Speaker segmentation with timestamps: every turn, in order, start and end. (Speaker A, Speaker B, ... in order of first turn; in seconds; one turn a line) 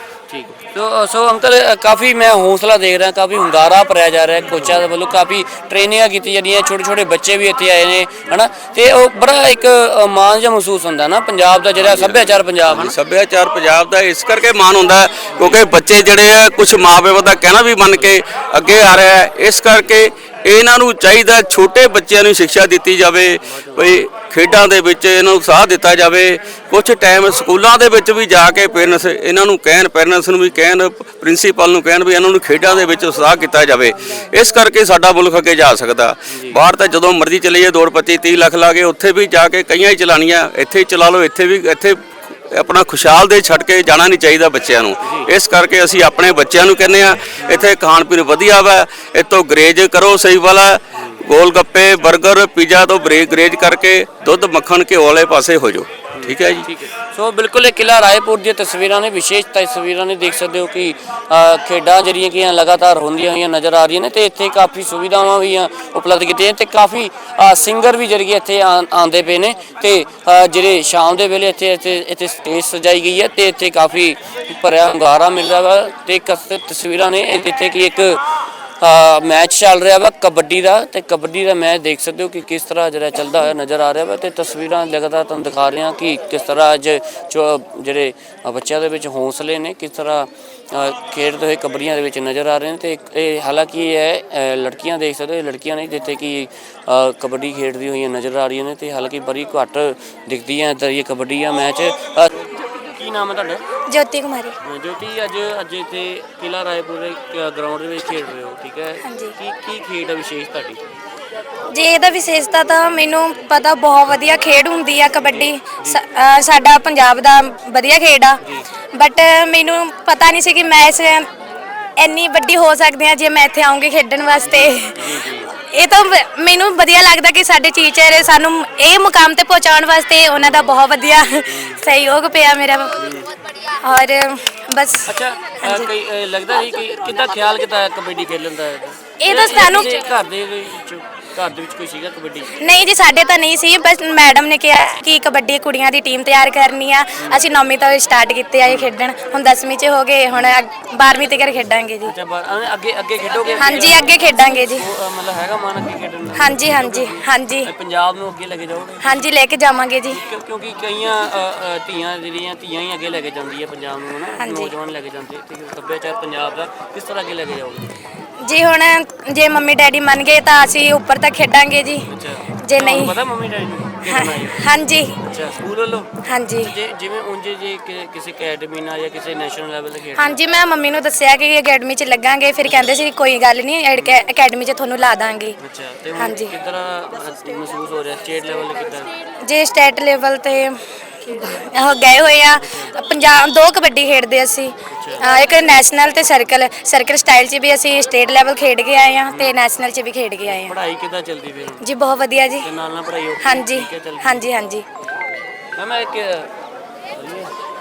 Speaker A: 0.3-12.9
Speaker B: 11.8-42.0
Speaker A: 15.3-15.6
Speaker A: 23.5-23.9
Speaker A: 34.0-34.3
Speaker A: 36.3-36.6
Speaker B: 42.5-56.7
Speaker A: 45.0-45.3
Speaker A: 47.4-47.7
Speaker A: 56.1-78.2
Speaker A: 78.8-103.6
Speaker C: 103.9-104.6
Speaker A: 104.7-110.8
Speaker C: 109.0-109.3
Speaker C: 111.7-118.4
Speaker A: 115.2-116.0
Speaker C: 118.9-121.3
Speaker C: 122.0-133.0
Speaker A: 124.4-125.5
Speaker A: 130.4-130.8
Speaker A: 131.5-131.8
Speaker A: 133.0-133.3
Speaker C: 133.7-135.1
Speaker A: 135.1-142.6
Speaker C: 135.6-135.9
Speaker C: 139.2-140.0
Speaker C: 142.6-152.1
Speaker A: 147.2-147.5
Speaker A: 148.6-148.9
Speaker A: 150.3-150.6
Speaker A: 152.1-159.3
Speaker C: 153.6-154.8
Speaker C: 156.3-157.7
Speaker C: 159.0-160.2
Speaker A: 160.1-167.9
Speaker C: 164.4-164.7
Speaker C: 168.4-172.1
Speaker A: 172.1-174.7
Speaker C: 172.6-173.1
Speaker C: 174.1-175.2
Speaker A: 175.2-180.4
Speaker C: 176.2-176.7
Speaker C: 180.2-185.6
Speaker A: 182.7-183.0
Speaker A: 184.0-184.2
Speaker A: 185.6-189.1
Speaker C: 186.2-186.5
Speaker C: 189.4-200.7
Speaker A: 192.6-192.9
Speaker A: 194.9-195.3
Speaker A: 200.4-201.8
Speaker C: 201.8-202.7
Speaker A: 202.6-204.5
Speaker C: 203.4-204.8
Speaker A: 205.8-206.5
Speaker A: 207.1-207.6